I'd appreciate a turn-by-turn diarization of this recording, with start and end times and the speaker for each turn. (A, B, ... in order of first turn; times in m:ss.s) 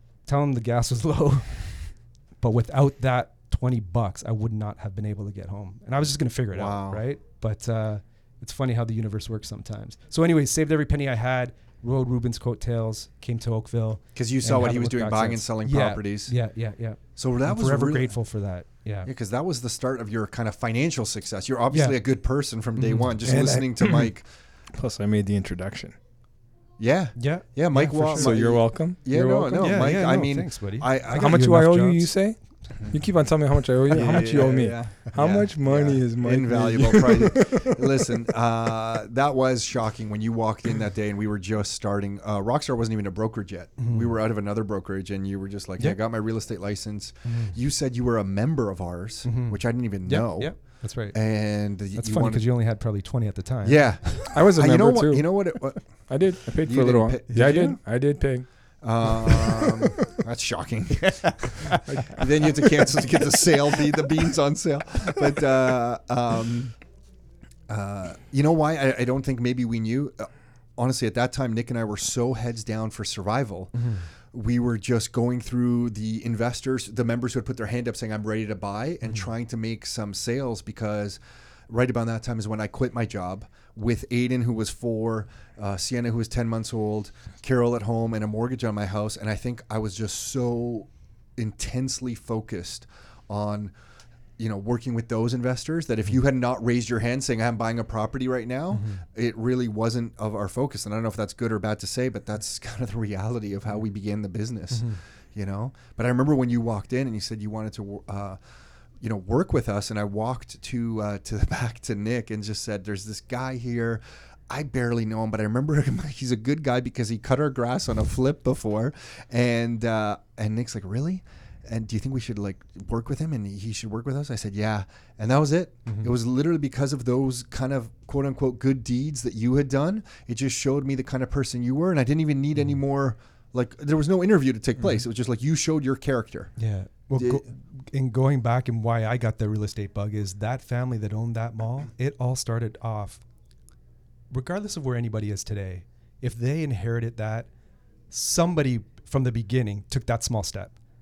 0:00.2-0:19.1 A
0:06.5-0:07.0 B
0:14.1-0:16.3 B
0:17.2-0:18.2 B
0:19.0-0:24.3 B
0:21.7-0:22.0 A
0:22.8-0:23.1 A
0:23.2-0:24.1 C
0:24.7-0:25.9 C
0:26.8-0:31.4 B
0:27.2-0:28.4 A
0:28.1-0:29.7 C
0:29.1-0:32.2 A
0:31.1-0:37.8 C
0:32.7-0:33.2 B
0:33.9-0:52.5 B
0:43.8-0:44.1 A
0:47.2-0:47.6 A
0:49.2-0:54.2 A
0:53.6-0:58.0 B
0:54.3-0:59.9 C
0:57.3-0:57.7 A
0:58.8-1:06.8 B
1:01.1-1:01.7 A
1:01.8-1:02.6 C
1:07.7-1:33.7 B
1:13.7-1:14.1 A
1:34.4-1:48.4 B
1:38.7-1:39.0 A
1:44.7-1:45.0 A
1:49.0-2:16.6 B
2:05.8-2:06.1 A
2:16.6-2:23.2 A
2:17.2-2:17.4 B
2:24.3-2:27.5 A
2:28.1-2:30.8 A